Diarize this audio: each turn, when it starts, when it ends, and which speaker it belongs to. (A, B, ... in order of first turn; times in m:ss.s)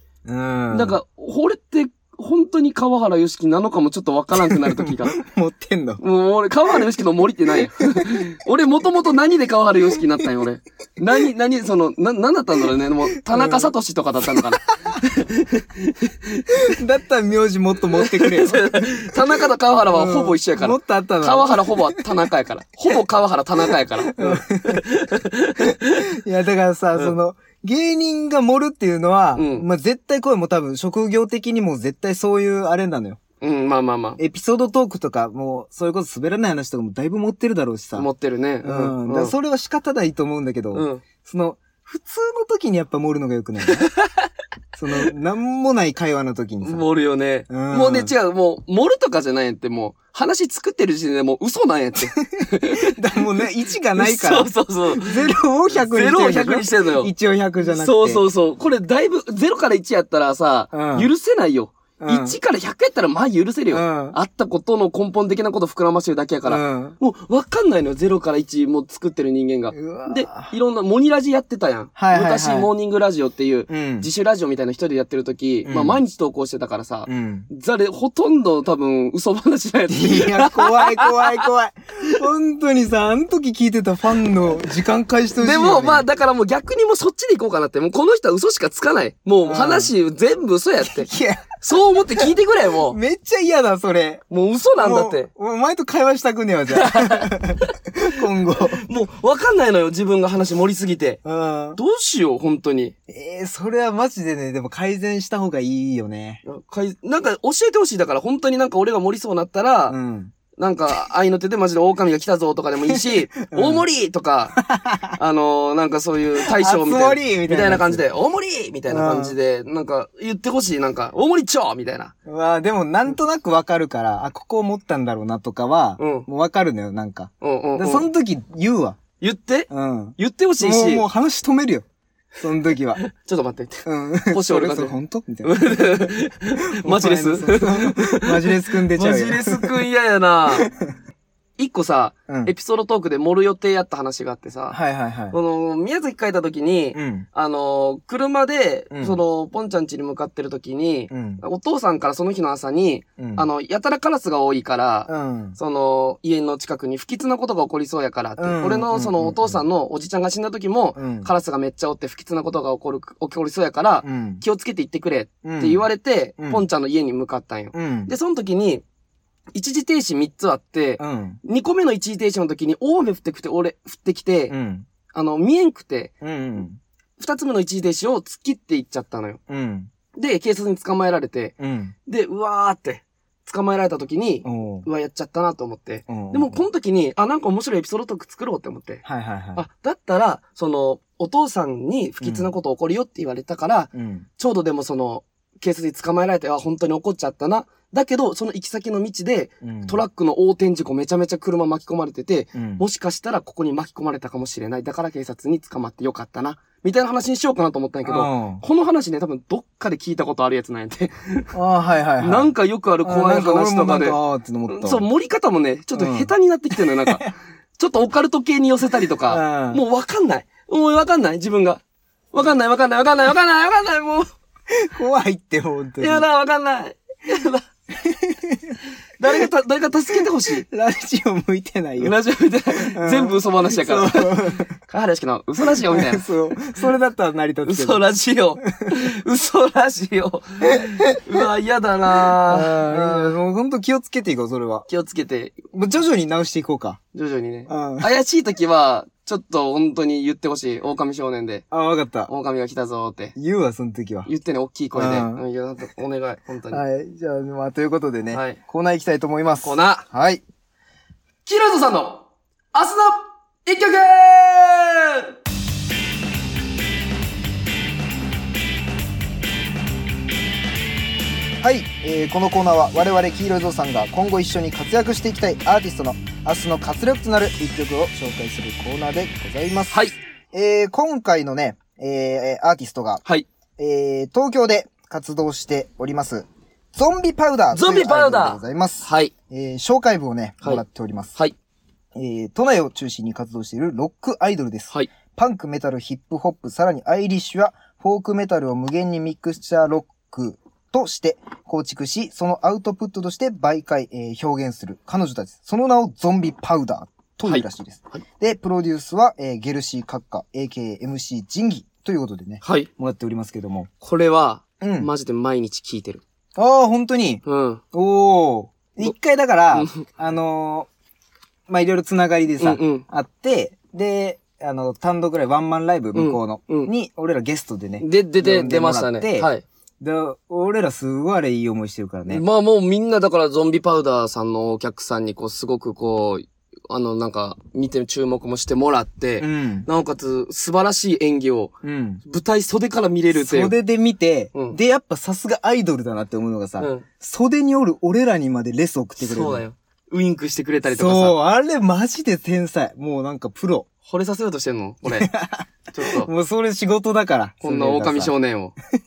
0:00.2-0:01.0 A
0:00.7-0:05.2 B
0:04.4-0:06.0 A
0:06.0-0:16.7 B
0:13.2-0:13.7 A
0:16.6-0:22.0 A
0:17.9-0:26.1 B
0:24.2-0:24.8 A
0:25.6-0:33.2 A
0:29.3-0:29.6 B
0:33.4-0:34.2 B
0:34.2-0:38.1 A
0:37.9-0:39.3 B
0:38.6-0:43.9 A
0:40.7-0:41.0 B
0:43.7-0:44.1 B
0:44.8-0:46.8 A
0:46.6-0:53.2 B
0:47.5-0:48.1 A
0:52.3-0:58.2 A
0:54.0-0:57.1 B
0:57.7-1:21.4 B
1:00.7-1:01.1 A
1:02.0-1:02.4 A
1:03.7-1:04.2 A
1:06.4-1:06.9 A
1:09.7-1:10.5 A
1:12.0-1:12.7 A
1:13.7-1:14.1 A
1:15.6-1:16.0 A
1:17.1-1:17.5 A
1:19.9-1:26.0 A
1:25.4-1:31.1 B
1:29.4-1:29.9 A
1:30.9-1:31.5 A
1:31.6-1:33.0 B
1:32.9-1:34.2 A
1:34.3-1:35.3 B
1:34.8-1:38.8 A
1:36.7-1:37.3 B
1:38.7-1:41.2 B
1:41.2-1:41.8 A
1:41.8-1:42.9 B
1:43.1-1:46.4 A
1:46.4-1:50.0 B
1:49.9-1:50.3 A
1:50.6-1:54.6 B
1:52.9-1:53.8 A
1:54.6-1:55.2 A
1:55.1-2:02.1 B
1:56.4-1:58.0 A
1:58.9-1:59.3 A
2:02.2-2:09.0 A
2:06.0-2:06.3 B
2:07.4-2:08.1 B
2:09.2-2:11.0 B
2:09.7-2:11.8 A
2:12.4-2:13.0 A
2:13.0-2:20.7 B
2:13.8-2:16.1 A
2:16.7-2:19.7 A
2:20.5-2:20.9 A
2:21.6-2:24.8 B
2:22.3-2:22.5 A
2:24.7-2:25.4 A
2:25.3-2:48.8 B
2:26.9-2:27.2 A
2:28.9-2:29.2 A
2:31.1-2:31.4 A
2:33.2-2:33.4 A
2:35.1-2:35.6 A
2:38.4-2:39.6 A
2:41.0-2:41.3 A
2:44.0-2:44.4 A
2:45.4-2:45.8 A
2:46.4-2:46.6 A
2:47.7-2:48.1 A
2:49.5-2:54.5 B
2:51.0-2:51.4 A
2:54.5-2:54.8 A
2:55.1-2:56.1 B
2:56.2-2:56.8 A
2:57.2-2:59.4 B
2:59.5-2:59.9 A
3:00.1-3:01.5 B
3:01.6-3:01.9 A
3:02.1-3:09.0 B
3:04.4-3:04.9 A
3:06.1-3:06.6 A
3:09.0-3:09.6 A
3:09.6-3:31.5 B
3:12.2-3:12.5 A
3:13.9-3:14.2 A
3:19.6-3:20.0 A
3:22.5-3:22.8 A
3:28.1-3:28.6 A
3:31.5-3:32.5 A
3:32.2-3:34.2 B
3:33.0-3:35.0 A
3:34.7-3:37.3 B
3:36.0-3:37.3 A
3:37.8-3:44.3 B
3:39.3-3:39.8 A
3:44.7-3:46.2 A
3:46.0-3:47.6 B
3:48.0-3:48.8 A
3:49.2-3:50.7 B
3:50.2-3:52.2 A
3:52.0-3:56.3 B
3:52.9-3:54.7 A
3:55.8-3:58.0 A
3:57.6-4:03.3 B
4:02.5-4:04.8 A
4:04.9-4:05.6 B
4:05.7-4:07.0 A
4:07.1-4:11.6 B
4:07.7-4:08.1 A
4:11.7-4:12.3 A
4:12.3-4:13.3 B
4:13.4-4:14.3 A
4:14.2-4:16.8 B
4:14.9-4:15.4 A
4:16.7-4:20.4 A
4:18.3-4:18.6 B
4:19.6-4:20.0 B
4:21.4-4:25.3 B
4:31.6-4:43.2 A
4:39.9-4:40.2 B
4:43.8-4:51.3 A
4:47.7-4:49.3 B
4:52.1-5:13.9 A
5:07.4-5:08.2 B
5:12.6-5:12.9 B
5:14.0-5:16.2 B
5:14.8-5:15.1 A
5:16.6-5:20.9 A
5:17.4-5:17.8 B
5:19.7-5:20.0 B
5:21.7-5:29.5 A
5:22.6-5:23.0 B
5:26.1-5:26.9 B
5:28.0-5:29.6 B
5:30.0-5:32.4 A
5:32.3-5:41.7 B
5:39.4-5:39.9 A
5:41.8-5:42.2 A
5:42.2-5:43.7 B
5:43.3-5:49.6 A
5:46.8-5:47.0 B
5:49.2-5:51.4 B
5:50.9-5:53.9 A
5:54.1-5:55.3 B
5:55.0-5:58.3 A
5:55.9-5:56.3 B
5:57.6-5:58.7 B